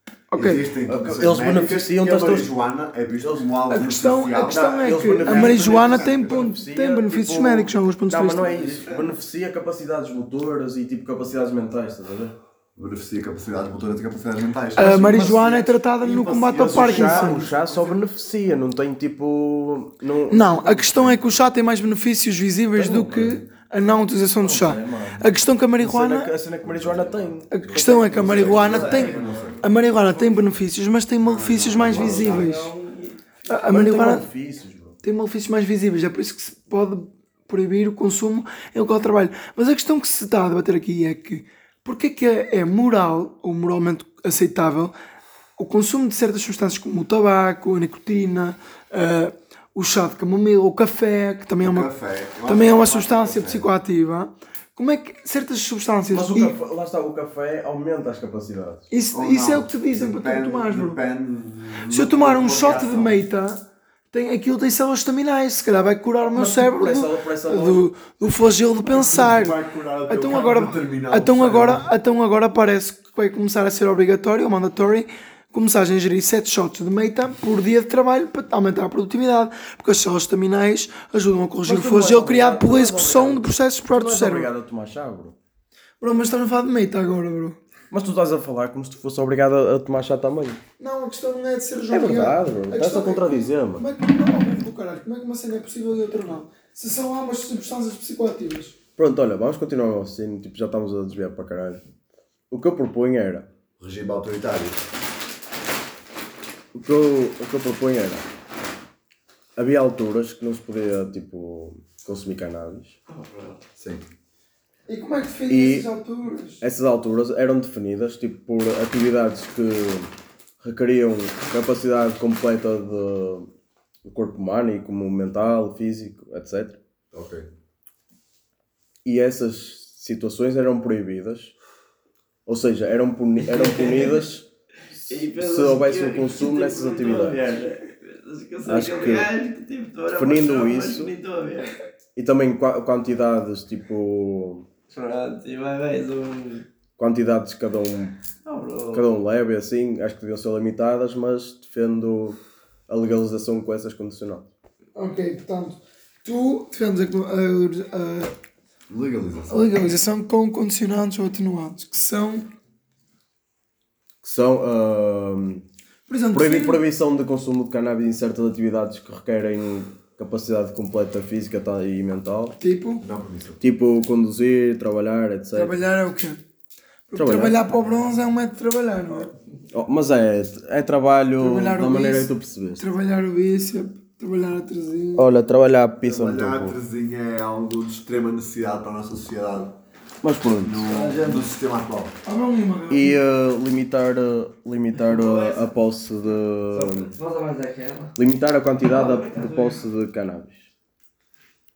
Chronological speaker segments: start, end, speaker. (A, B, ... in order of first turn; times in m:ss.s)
0:00.3-0:00.6 A
0:00.3-0:04.7 B
0:00.9-0:02.6 C
0:03.7-0:08.8 A
0:04.5-0:12.4 C
0:05.3-0:06.3 B
0:12.8-0:18.0 B
0:14.8-0:17.5 A
0:16.5-0:21.2 C
0:20.3-0:26.3 A
0:22.7-0:23.4 C
0:24.4-0:27.5 C
0:26.6-0:29.7 B
0:27.5-0:32.7 A
0:28.2-0:29.6 D
0:31.2-0:32.6 B
0:31.9-0:33.4 D
0:33.5-0:34.3 A
0:33.7-0:35.0 C
0:35.0-0:44.9 A
0:45.6-0:51.9 A
0:51.6-0:53.7 B
0:52.4-0:56.6 A
0:56.1-0:58.8 C
0:58.9-1:01.0 A
0:59.1-1:03.3 B
1:01.9-1:24.5 A
1:06.2-1:07.9 C
1:08.8-1:11.9 B
1:21.6-1:25.4 C
1:26.0-1:27.6 A
1:27.9-1:30.6 C
1:30.8-1:38.8 A
1:31.9-1:33.8 C
1:39.0-1:41.8 C
1:42.5-1:43.5 C
1:43.8-1:44.8 B
1:46.8-1:48.2 C
1:49.6-1:53.0 C
1:53.1-1:53.6 D
1:53.8-1:54.1 B
1:54.9-1:56.6 A
1:55.5-1:55.9 C
1:56.6-2:03.5 C
2:04.0-2:06.8 C
2:07.1-2:07.5 B
2:09.0-2:11.5 C
2:12.5-2:14.5 C
2:13.4-2:14.2 D
2:15.1-2:21.8 D
2:15.3-2:17.5 C
2:18.6-2:19.3 C
2:20.2-2:21.1 C
2:22.2-2:24.7 C
2:24.9-2:26.7 D
2:27.0-2:28.2 C
2:28.4-2:29.1 D
2:28.9-2:34.5 C
2:35.0-2:38.3 A
2:38.9-2:39.8 B
2:39.5-2:42.5 A
2:44.2-2:45.6 C
2:46.1-2:46.8 A
2:46.3-2:52.6 C
2:52.6-2:53.0 A
2:53.0-2:53.6 B
2:53.6-2:55.8 C
2:55.5-2:56.4 A
2:57.1-2:59.3 A
2:57.2-2:57.6 C
2:59.7-3:02.8 C
3:01.4-3:05.3 A
3:05.2-3:06.8 C
3:06.0-3:09.8 B
3:10.2-3:10.9 C
3:10.6-3:12.2 B
3:10.8-3:11.5 D
3:12.2-3:13.2 A
3:12.9-3:17.1 C
3:14.9-3:15.7 D
3:16.7-3:18.1 D
3:18.2-3:20.7 C
3:18.8-3:19.9 D